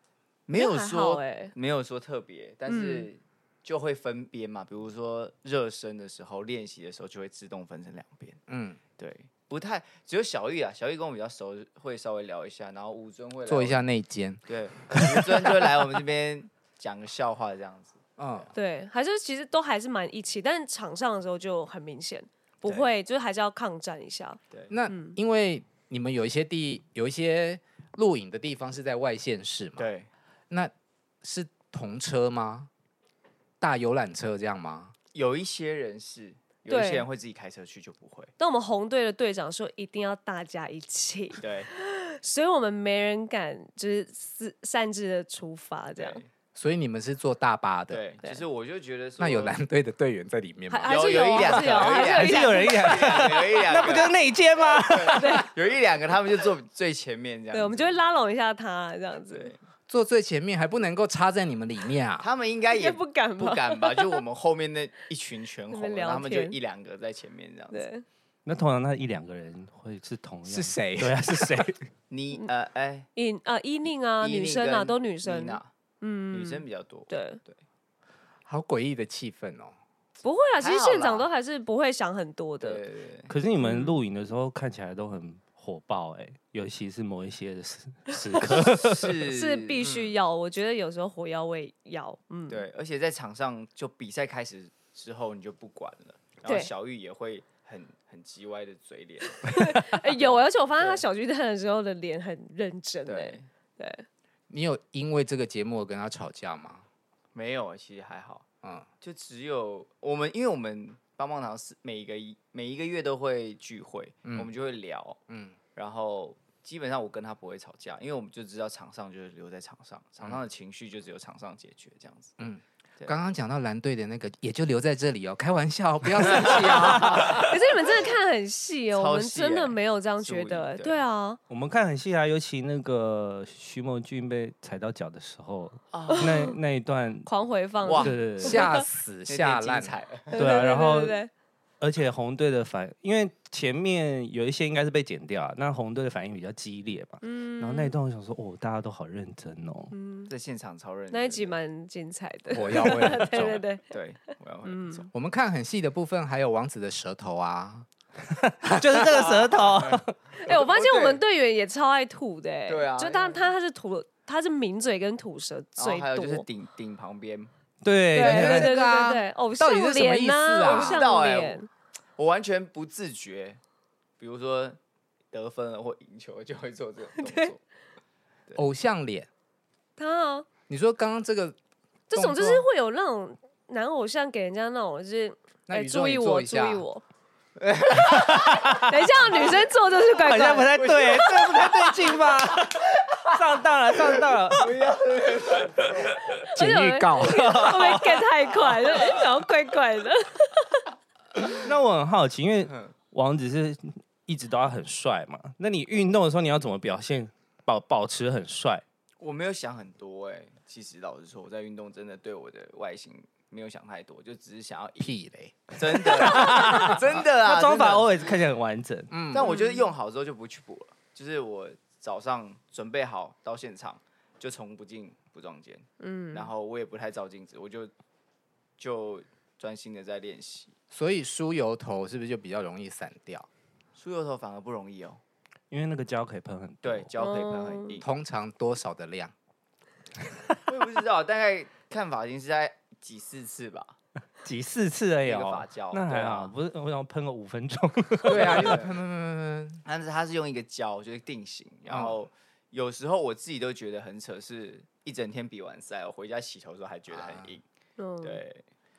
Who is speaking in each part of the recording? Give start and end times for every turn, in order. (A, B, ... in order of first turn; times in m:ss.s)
0:00.5-0:08.4 A
0:00.6-0:01.5 B
0:02.7-0:03.1 B
0:08.5-0:08.8 C
0:09.0-0:13.8 A
0:13.5-0:15.2 C
0:14.5-0:18.5 A
0:18.2-0:18.5 C
0:18.5-0:25.2 B
0:24.7-0:29.9 C
0:29.8-0:30.1 A
0:31.2-0:32.7 C
0:33.6-0:34.9 C
0:35.1-0:38.3 A
0:36.7-0:37.1 B
0:38.4-0:46.2 B
0:41.4-0:41.7 A
0:46.0-0:46.3 A
0:46.6-0:48.0 C
0:47.9-0:49.6 A
0:49.2-0:51.9 C
0:50.7-0:53.1 B
0:50.9-0:54.1 A
0:52.0-0:55.5 D
0:54.7-0:58.0 A
0:55.1-0:55.5 B
0:57.5-0:59.5 B
0:59.3-0:59.6 A
0:59.9-1:02.3 C
1:02.2-1:07.8 A
1:02.7-1:04.2 B
1:05.7-1:06.6 B
1:07.7-1:08.0 B
1:08.4-1:11.9 D
1:10.5-1:11.7 C
1:12.1-1:13.1 A
1:13.2-1:17.4 B
1:14.2-1:15.7 A
1:16.3-1:17.6 A
1:18.5-1:19.7 C
1:20.2-1:22.8 B
1:20.6-1:21.3 A
1:22.6-1:23.3 A
1:23.3-1:29.2 D
1:23.6-1:24.0 B
1:28.1-1:28.6 B
1:28.8-1:30.1 A
1:29.2-1:32.6 B
1:32.5-1:41.0 A
1:36.4-1:36.7 B
1:39.4-1:44.1 B
1:43.1-1:43.5 A
1:44.5-1:46.8 C
1:47.3-1:48.4 A
1:49.0-1:55.2 A
1:55.3-1:55.6 C
1:55.8-2:02.3 A
2:02.4-2:07.5 C
2:06.2-2:07.4 A
2:07.4-2:11.4 B
2:08.9-2:11.0 A
2:11.5-2:17.3 D
2:15.9-2:16.4 A
2:16.1-2:16.6 B
2:17.3-2:18.9 B
2:17.8-2:18.2 A
2:18.0-2:18.6 D
2:18.4-2:19.9 C
2:19.3-2:20.4 A
2:20.3-2:21.3 B
2:20.4-2:21.2 D
2:21.8-2:29.9 D
2:27.2-2:27.9 B
2:29.9-2:30.3 B
2:30.3-2:31.6 A
2:31.1-2:33.8 B
2:32.5-2:33.6 C
2:33.9-2:35.1 A
2:34.6-2:35.1 B
2:35.1-2:37.9 C
2:38.3-2:40.1 D
2:39.0-2:41.2 A
2:40.4-2:46.5 B
2:42.7-2:43.5 A
2:45.8-2:47.5 A
2:47.8-2:48.7 D
2:48.1-2:51.7 B
2:48.2-2:51.1 C
2:50.6-2:51.6 A
2:52.2-2:53.6 A
2:54.2-2:54.8 A
2:55.3-2:57.6 A
2:57.2-2:57.5 B
2:58.6-2:59.3 C
3:00.0-3:00.5 B
3:00.7-3:01.6 C
3:02.1-3:07.0 B
3:02.1-3:02.7 C
3:05.7-3:06.8 C
3:07.6-3:08.7 A
3:08.1-3:08.8 D
3:08.8-3:11.7 B
3:09.3-3:09.6 A
3:10.2-3:14.8 D
3:10.7-3:11.3 A
3:14.5-3:16.3 A
3:16.5-3:20.9 B
3:16.5-3:17.7 C
3:17.2-3:18.3 D
3:21.5-3:28.8 D
3:29.2-3:35.1 A
3:35.0-3:37.0 C
3:35.8-3:38.2 A
3:36.0-3:39.1 D
3:39.1-3:39.5 C
3:39.3-3:47.9 A
3:39.4-3:39.9 B
3:46.0-3:46.5 B
3:48.8-3:50.7 A
3:50.9-3:53.5 C
3:54.0-3:55.2 A
3:55.7-3:57.1 D
3:56.8-3:58.1 A
3:57.2-3:58.0 B
3:58.0-3:59.3 C
4:00.7-4:04.0 A
4:04.4-4:08.8 D
4:05.2-4:06.5 A
4:08.2-4:09.8 C
4:08.3-4:09.0 A
4:09.8-4:17.6 A
4:11.9-4:12.2 C
4:17.1-4:17.5 C
4:18.0-4:18.4 B
4:18.2-4:18.6 A